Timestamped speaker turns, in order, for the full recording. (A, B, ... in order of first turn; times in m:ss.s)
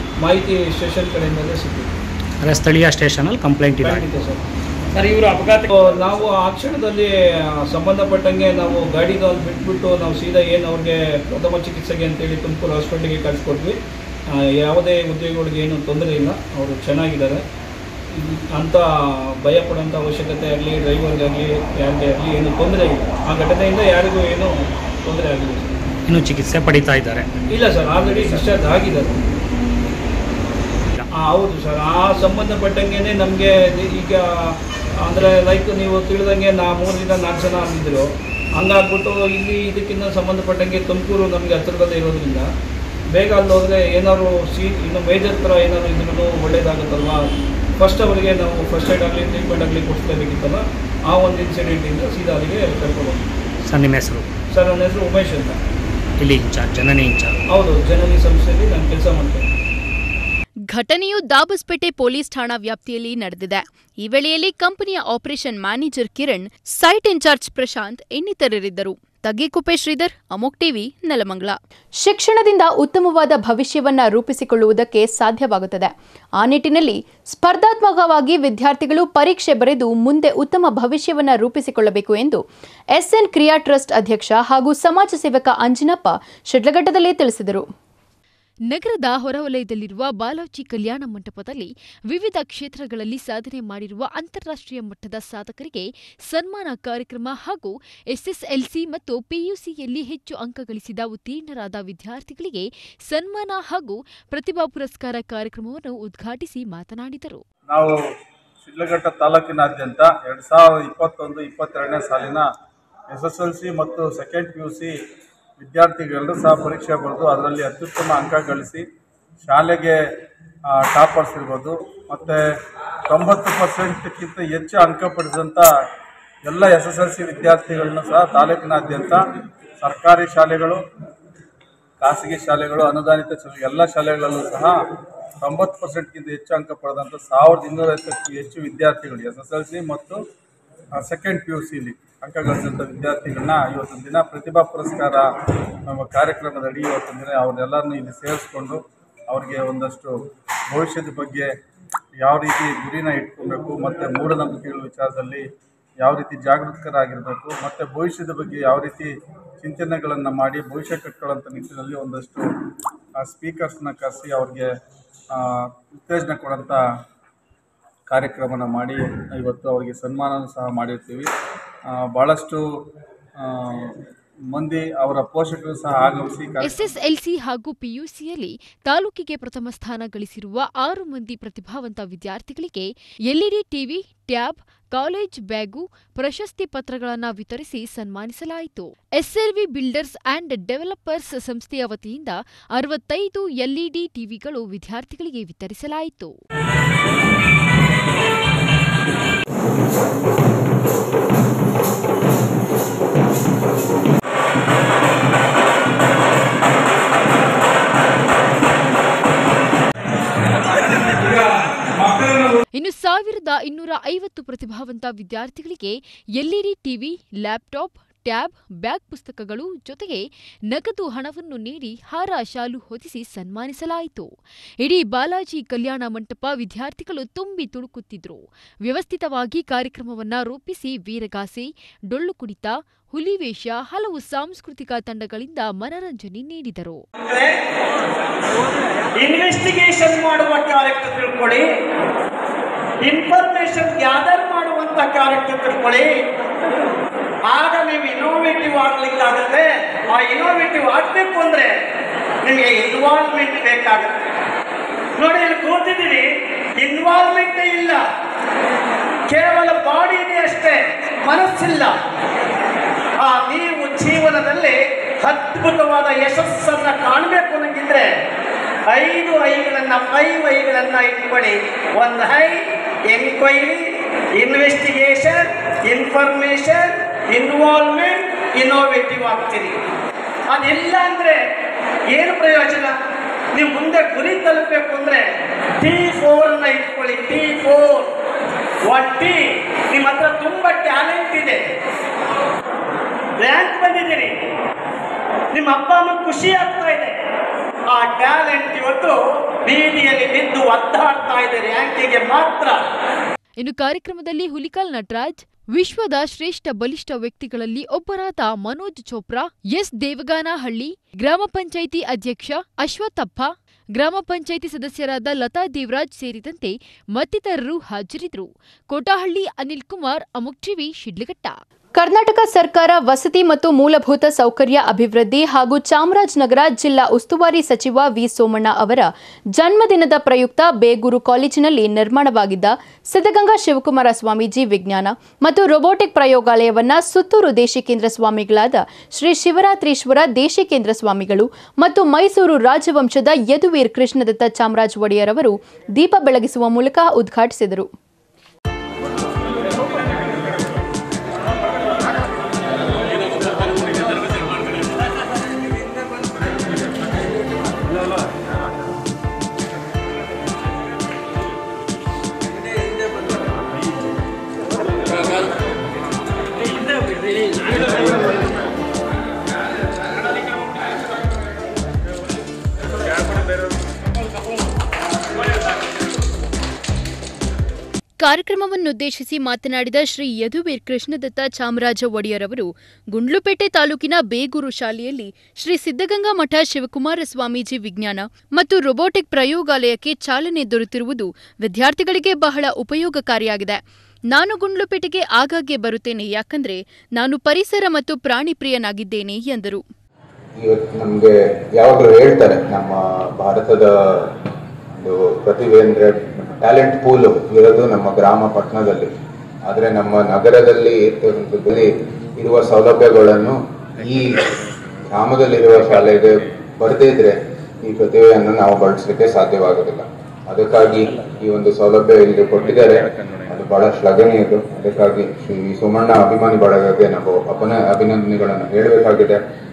0:00.2-0:01.9 A
0:02.4-0:04.0 B
0:03.8-0:04.4 A
0:05.7-0:07.1 A
0:07.6-0:13.8 A
0:14.3-0:17.4 A
0:18.1-0:25.8 A
0:26.1-0:27.3 B
0:27.5-0:29.2 A
0:31.2-0:42.5 A
0:43.1-0:53.2 A
0:53.7-0:54.3 B
0:54.5-0:55.6 A
0:56.2-0:57.4 B
0:57.5-0:59.5 A
1:00.7-1:22.4 C
1:22.9-1:27.7 C
1:28.7-1:47.4 D
1:47.7-1:48.0 E
1:48.6-1:52.5 E
1:53.1-1:54.9 E
1:55.6-1:58.8 E
1:59.4-2:00.0 E
2:00.7-2:02.4 E
2:03.1-2:05.7 E
2:06.5-2:09.2 E
2:09.8-2:10.8 E
2:12.0-2:14.8 E
2:15.4-2:20.2 E
2:21.0-2:25.3 E
2:25.9-2:30.2 E
2:30.7-2:31.5 E
2:32.2-2:35.5 E
2:36.0-2:42.4 E
2:43.2-2:44.7 E
2:45.3-2:46.8 E
2:48.1-2:51.3 E
2:51.9-2:52.6 E
2:53.4-2:54.0 E
2:54.5-2:56.8 E
2:56.6-3:16.4 D
3:32.0-3:32.5 A
3:32.8-3:44.3 D
3:44.8-3:57.0 D
3:57.2-3:57.5 F
3:59.2-4:01.7 F
4:03.1-4:06.1 F
4:07.5-4:11.7 F
4:12.4-4:14.2 F
4:15.2-4:16.3 F
4:16.8-4:18.0 F
4:19.3-4:21.9 F
4:23.2-4:28.1 F
4:28.9-4:39.7 F
4:40.5-4:41.4 F
4:42.1-4:42.9 F
4:43.6-4:45.2 F
4:45.8-4:48.1 F
4:48.9-4:51.6 F
4:53.4-4:54.3 F
4:55.5-4:57.1 F
4:57.9-5:02.8 F
5:03.6-5:21.6 D
5:22.0-5:47.9 C
6:18.2-6:33.8 C
6:34.3-6:39.8 C
6:40.6-6:44.3 G
6:44.9-6:49.1 G
6:49.7-6:54.4 G
6:55.1-7:09.4 G